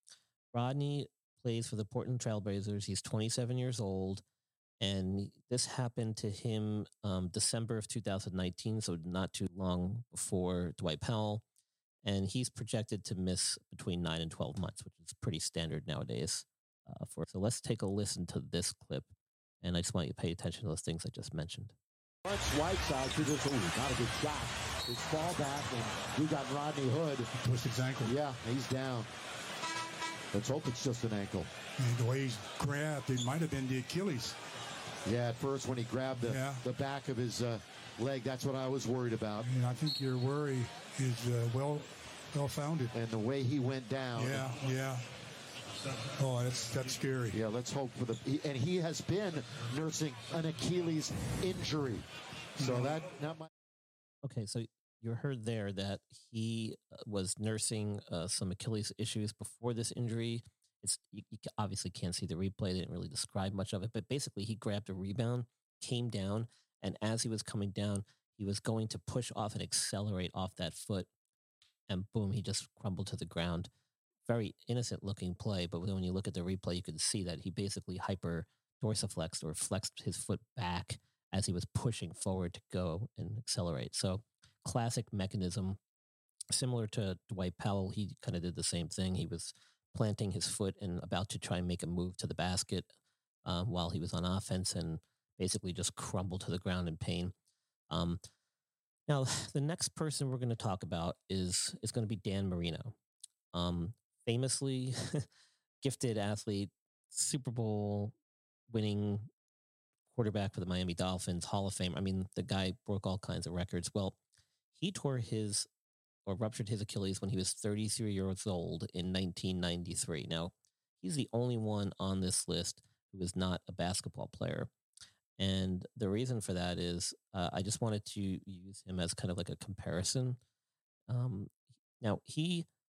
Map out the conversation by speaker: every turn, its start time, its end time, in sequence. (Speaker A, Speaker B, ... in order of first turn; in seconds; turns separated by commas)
Speaker A: 0.5-4.2, Speaker A: 4.8-11.4, Speaker A: 12.0-19.1, Speaker A: 19.6-21.7, Speaker B: 22.2-27.3, Speaker C: 27.4-28.1, Speaker B: 28.0-29.1, Speaker B: 30.3-31.5, Speaker C: 31.8-34.4, Speaker B: 35.0-39.5, Speaker C: 36.2-36.6, Speaker C: 39.4-42.9, Speaker B: 42.9-44.5, Speaker C: 44.1-45.0, Speaker C: 46.2-47.4, Speaker B: 47.3-52.0, Speaker C: 52.6-53.0, Speaker B: 52.6-53.5, Speaker A: 54.2-71.1, Speaker A: 71.9-73.7, Speaker A: 74.2-85.8, Speaker A: 86.5-92.9, Speaker A: 93.4-97.3, Speaker A: 97.9-98.2, Speaker A: 99.1-102.9, Speaker A: 103.5-105.2, Speaker A: 105.8-108.1, Speaker A: 108.7-109.3, Speaker A: 110.1-114.2, Speaker A: 114.8-115.7, Speaker A: 116.2-124.7, Speaker A: 125.4-130.4, Speaker A: 131.1-132.7